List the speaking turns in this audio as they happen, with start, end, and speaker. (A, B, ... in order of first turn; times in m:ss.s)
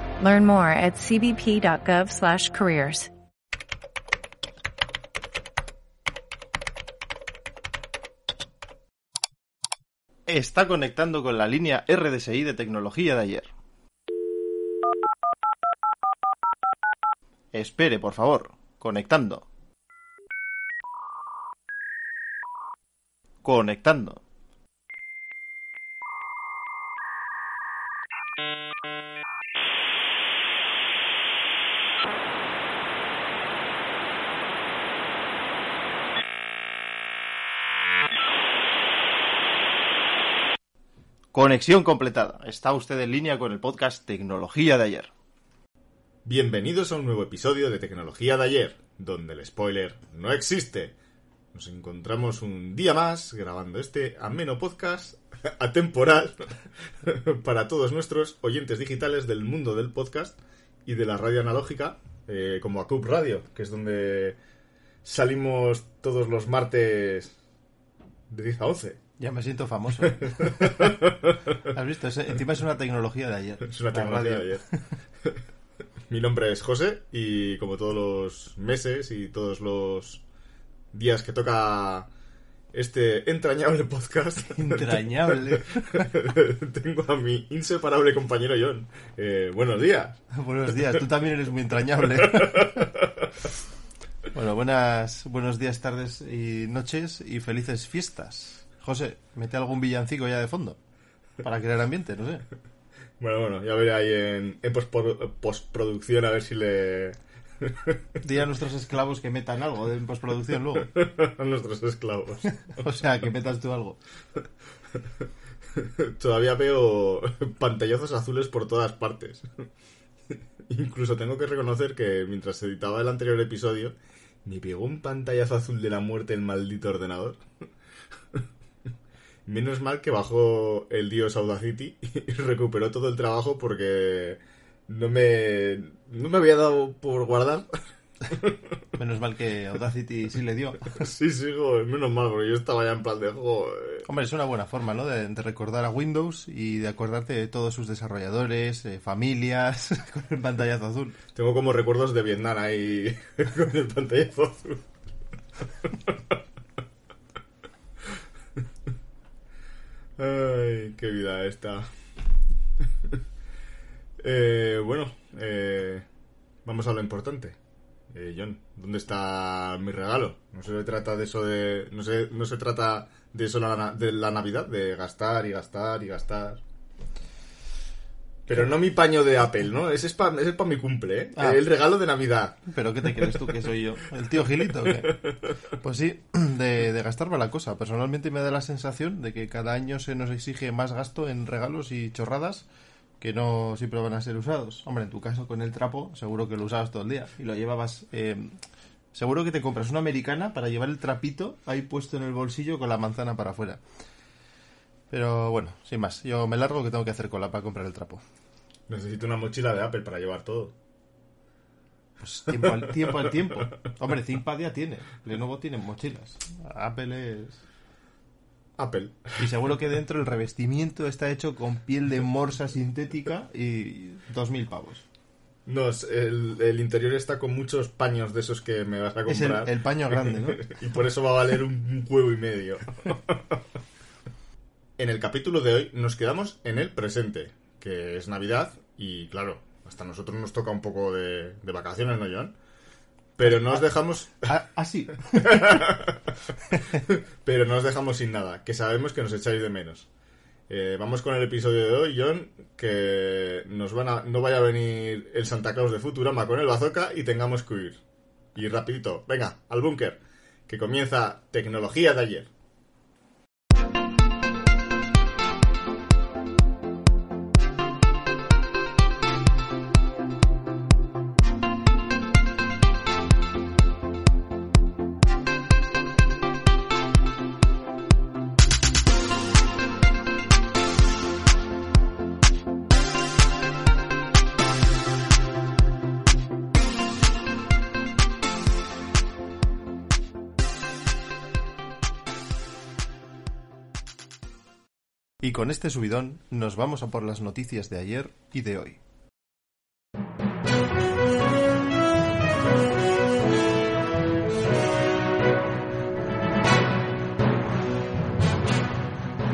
0:00.2-0:03.1 A
0:10.3-0:13.5 B
0:17.5-0:19.4 B
0:23.4-0:24.2 B
0:41.3-0:45.1 B
0:46.2-0:51.0 C
0:51.5-1:04.4 C
1:05.0-1:07.3 C
1:08.3-1:09.0 C
1:09.2-1:11.0 B
1:10.2-1:11.4 C
1:11.7-1:14.8 B
1:13.6-1:14.6 C
1:16.1-1:20.2 C
1:20.9-1:22.1 C
1:22.7-1:30.2 C
1:24.6-1:26.1 B
1:30.3-1:32.9 B
1:32.2-1:33.3 C
1:34.3-1:40.8 B
1:41.4-1:42.4 B
1:43.2-1:48.0 C
1:48.2-1:50.9 B
1:50.9-1:52.6 C
1:52.8-1:54.0 B
1:55.7-1:59.5 C
2:00.7-2:07.4 C
2:09.5-2:17.7 C
2:18.2-2:18.8 C
2:19.0-2:21.0 B
2:20.9-2:24.1 C
2:24.1-2:31.2 B
2:31.4-2:34.8 C
2:35.8-2:36.4 C
2:40.2-2:41.9 C
2:44.2-2:46.1 C
2:46.6-2:47.6 C
2:48.1-2:56.6 C
2:58.5-3:03.5 C
3:01.4-3:01.6 B
3:02.7-3:12.7 B
3:05.0-3:05.3 C
3:13.2-3:18.6 B
3:19.1-3:23.8 B
3:25.1-3:28.2 B
3:28.9-3:30.7 C
3:32.2-3:37.6 B
3:32.6-3:33.1 C
3:38.8-3:39.4 C
3:39.4-3:45.0 B
3:45.7-3:53.6 C
3:49.3-3:50.7 B
3:55.0-4:02.6 C
4:03.4-4:04.5 C
4:03.5-4:03.8 B
4:04.4-4:05.8 B
4:05.4-4:06.4 C
4:07.0-4:10.1 C
4:10.7-4:18.0 C
4:18.6-4:22.5 C
4:55.4-4:59.0 B